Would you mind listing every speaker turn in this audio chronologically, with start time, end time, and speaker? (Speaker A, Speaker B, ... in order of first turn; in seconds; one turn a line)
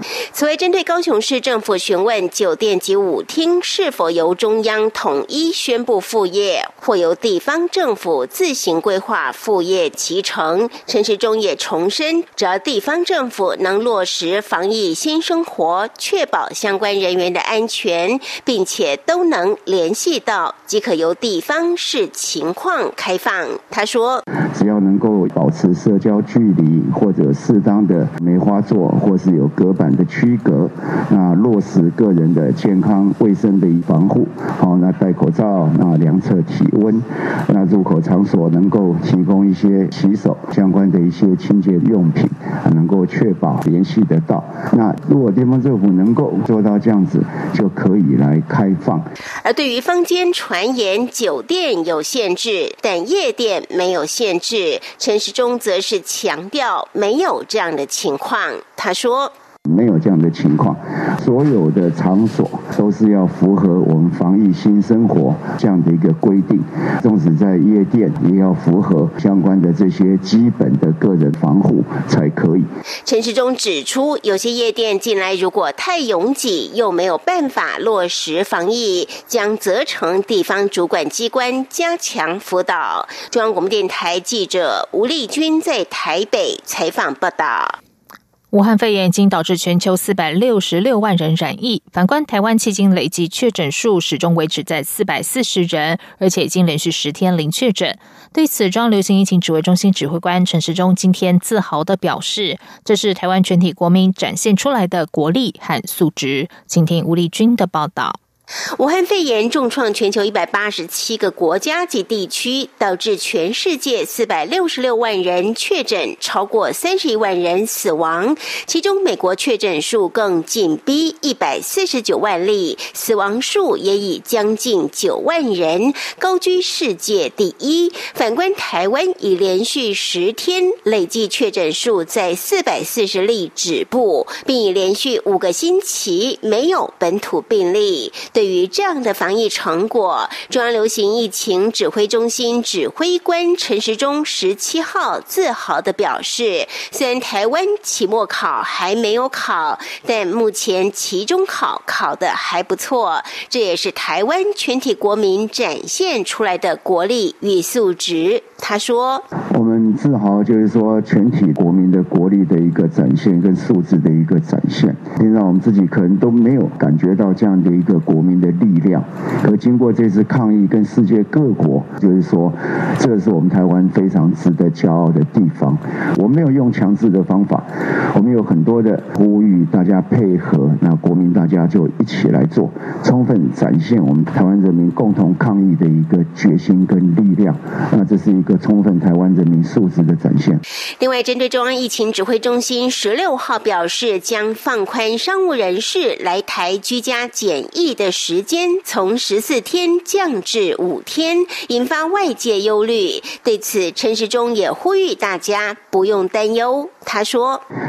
Speaker A: 0.3-24.2
Speaker B: 24.5-49.0
Speaker A: 49.4-59.3
Speaker B: 59.7-72.7
Speaker A: 73.1-87.8
Speaker C: 88.5-108.2
Speaker A: 108.8-159.2
Speaker B: 159.5-190.6
Speaker A: 191.0-207.6